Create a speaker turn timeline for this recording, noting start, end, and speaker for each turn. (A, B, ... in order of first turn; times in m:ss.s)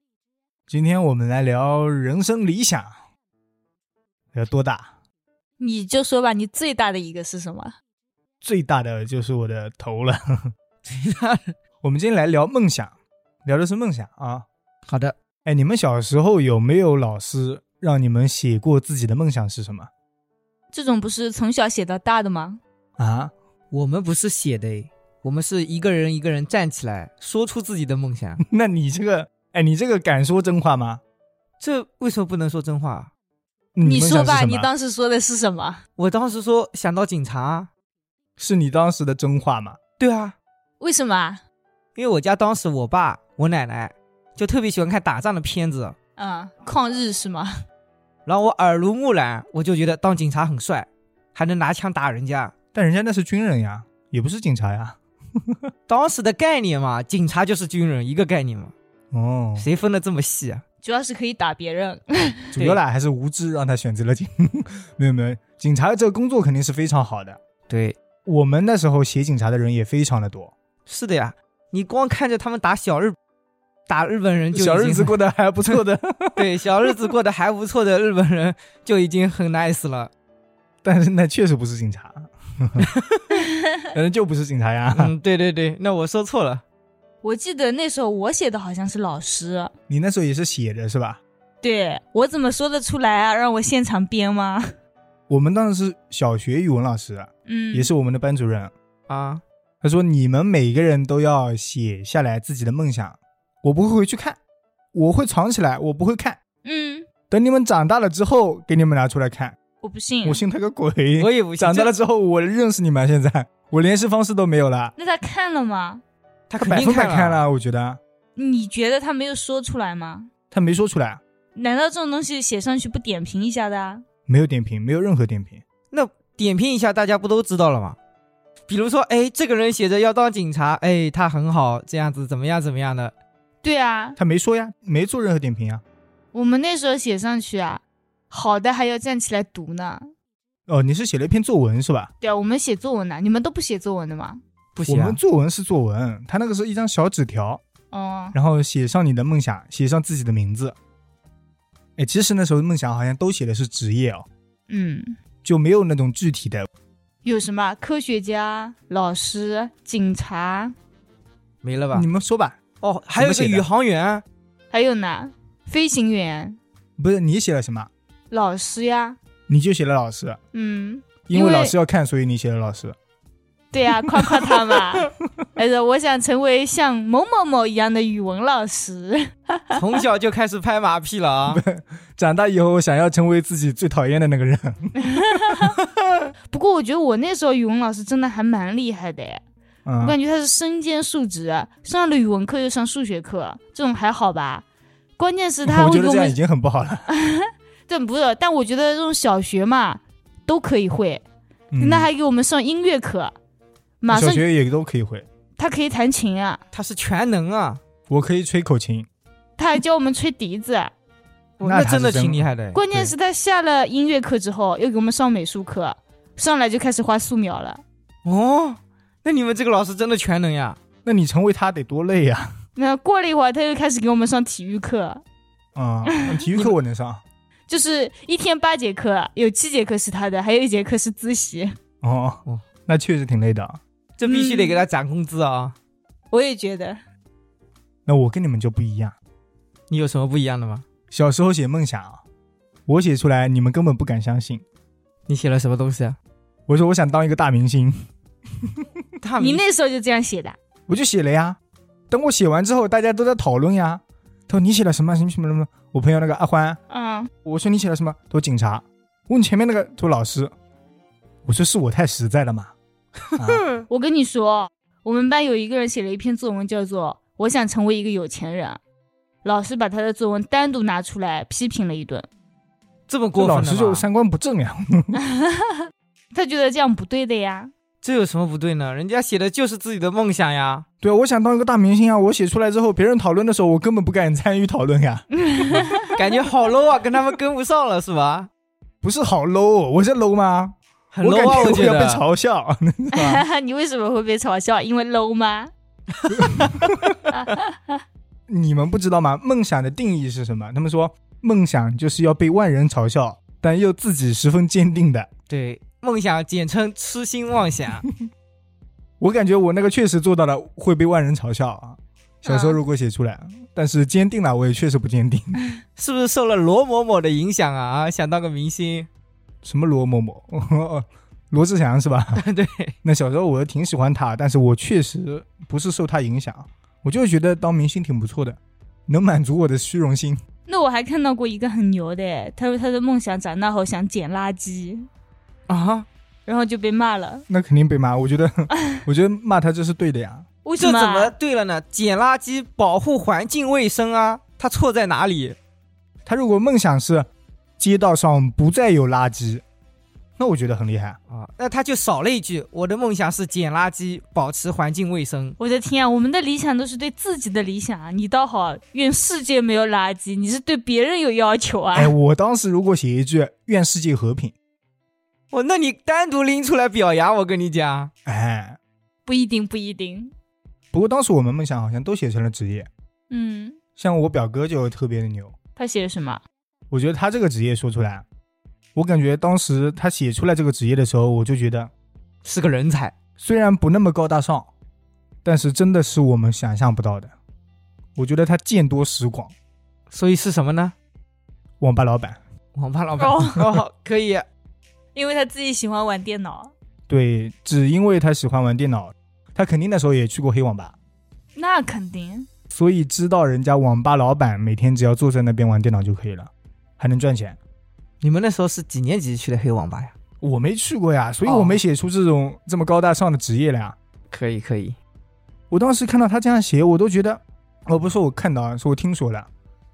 0:00.7-0:02.9 A
0:04.3-0:04.9 A
0:05.6-0:07.8 B
0:08.4-0:10.5 A
0:10.8-0:11.6 C
0:11.8-0:12.9 A
0:13.4-0:14.4 A
0:14.9-0:15.2 C
0:15.5-0:19.9 A
0:20.7-0:22.6 B
0:23.0-0:23.3 A
0:23.7-0:28.4 C
0:28.4-0:31.0 A
0:31.6-0:33.1 C
0:33.8-0:34.7 A
0:33.8-0:35.8 B
0:36.0-0:37.7 C
0:38.4-0:39.8 A
0:40.0-0:40.4 C
0:40.8-0:41.4 B
0:42.0-0:46.0 C
0:46.2-0:47.6 B
0:48.3-0:52.5 C
0:52.7-0:55.6 A
0:55.9-0:58.7 C
0:59.1-0:59.7 A
0:59.6-1:00.6 C
1:00.8-1:02.5 B
1:02.5-1:07.4 A
1:07.7-1:08.0 C
1:08.2-1:10.5 A
1:10.9-1:13.2 C
1:13.9-1:15.8 C
1:14.5-1:16.9 A
1:16.4-1:20.1 C
1:20.8-1:22.9 A
1:22.8-1:23.2 C
1:23.3-1:23.7 B
1:23.9-1:25.1 A
1:24.9-1:26.6 C
1:27.2-1:29.7 B
1:29.9-1:31.2 A
1:31.6-1:34.7 B
1:35.3-1:38.7 A
1:37.5-1:37.9 B
1:39.1-1:39.4 C
1:39.8-1:44.4 A
1:44.9-1:46.4 A
1:46.6-1:47.1 B
1:47.3-1:49.6 A
1:49.8-1:50.4 B
1:50.2-1:54.9 A
1:51.2-1:51.9 C
1:55.0-1:56.0 B
1:56.5-1:57.4 C
1:56.6-1:58.0 A
1:58.4-2:00.3 B
2:00.5-2:01.2 A
2:01.6-2:04.0 B
2:04.3-2:05.6 A
2:05.9-2:08.0 C
2:08.7-2:13.1 C
2:13.6-2:14.2 B
2:14.2-2:15.8 A
2:16.3-2:20.1 B
2:20.7-2:22.1 A
2:22.2-2:24.4 B
2:24.8-2:25.2 C
2:24.9-2:27.6 A
2:27.9-2:28.4 B
2:28.4-2:30.8 A
2:32.0-2:34.3 A
2:34.7-2:35.2 B
2:35.4-2:36.7 A
2:37.2-2:40.7 B
2:41.6-2:42.1 C
2:41.9-2:42.6 A
2:42.8-2:44.2 C
2:43.2-2:43.7 A
2:44.7-2:46.6 B
2:47.0-2:47.9 A
2:48.3-2:49.2 B
2:49.5-2:50.4 A
2:50.5-2:51.8 B
2:51.3-2:53.0 A
2:53.7-2:59.8 B
2:54.2-2:54.8 A
2:59.7-3:01.6 C
3:01.5-3:05.7 A
3:05.0-3:05.8 B
3:06.5-3:09.4 B
3:09.8-3:10.2 A
3:10.0-3:14.6 B
3:15.2-3:16.4 B
3:15.6-3:17.1 A
3:17.1-3:21.2 B
3:21.7-3:22.1 A
3:21.8-3:23.4 B
3:24.0-3:24.4 B
3:24.1-3:25.3 A
3:25.6-3:26.6 B
3:26.7-3:27.8 C
3:28.1-3:29.1 A
3:29.6-3:30.9 B
3:31.6-3:32.8 C
3:31.6-3:33.1 A
3:32.7-3:37.8 B
3:38.2-3:40.8 C
3:41.0-3:42.6 A
3:42.8-3:45.2 B
3:45.8-3:47.2 A
3:46.1-3:46.5 B
3:47.7-3:51.8 B
3:52.0-3:53.8 A
3:54.2-3:55.8 C
3:54.3-3:54.8 B
3:56.3-3:57.0 B
3:58.1-3:59.2 A
3:59.9-4:00.9 C
4:01.1-4:02.2 A
4:02.9-4:04.6 A
4:05.3-4:06.2 C
4:06.7-4:08.1 A
4:08.6-4:08.9 A
4:09.2-4:09.6 C
4:09.4-4:10.6 B
4:10.9-4:11.6 A
4:12.1-4:16.8 A
4:16.9-4:17.3 B
4:17.4-4:20.5 A
4:21.4-4:22.7 A
4:23.4-4:23.6 A
4:23.4-4:23.8 C
4:23.9-4:28.8 B
4:29.4-4:32.3 B
4:33.1-4:34.1 C
4:33.4-4:35.2 A
4:35.3-4:35.8 B
4:36.3-4:37.7 B
4:38.0-4:40.8 C
4:41.0-4:45.8 A
4:45.3-4:46.2 B
4:46.1-4:48.5 C
4:49.0-4:53.4 A
4:51.1-4:52.2 C
4:53.1-4:55.7 B
4:56.2-4:56.8 C
4:56.3-4:57.2 A
4:57.3-4:58.0 B
4:58.5-5:05.3 A
5:05.5-5:08.1 C
5:09.2-5:15.6 A
5:12.5-5:12.8 B
5:16.0-5:19.1 C
5:19.6-5:22.4 A
5:22.4-5:22.9 C
5:23.0-5:30.4 A
5:30.7-5:35.1 B
5:35.7-5:36.1 C
5:36.5-5:37.4 B
5:37.5-5:40.5 A
5:40.6-5:41.3 B
5:40.8-5:45.6 C
5:46.2-5:47.3 A
5:47.8-5:49.6 A
5:50.4-5:51.2 A
5:51.3-5:55.6 C
5:55.6-6:02.2 B
6:01.9-6:04.5 A
6:05.5-6:08.1 C
6:08.2-6:08.8 A
6:09.3-6:10.3 B
6:10.9-6:12.9 A
6:13.3-6:13.8 B
6:14.0-6:15.5 A
6:15.8-6:16.4 B
6:16.9-6:18.2 A
6:19.0-6:21.9 A
6:22.4-6:23.1 C
6:23.4-6:24.7 A
6:25.4-6:27.3 A
6:28.2-6:29.5 A
6:30.1-6:31.0 C
6:31.8-6:32.4 A
6:32.8-6:34.4 C
6:33.2-6:33.6 B
6:35.2-6:36.7 B
6:37.1-6:41.0 A
6:41.6-6:42.5 B
6:42.7-6:47.6 A
6:48.2-6:50.1 C
6:50.4-6:54.0 A
6:51.4-6:51.8 C
6:54.3-6:55.0 C
6:55.7-6:59.5 A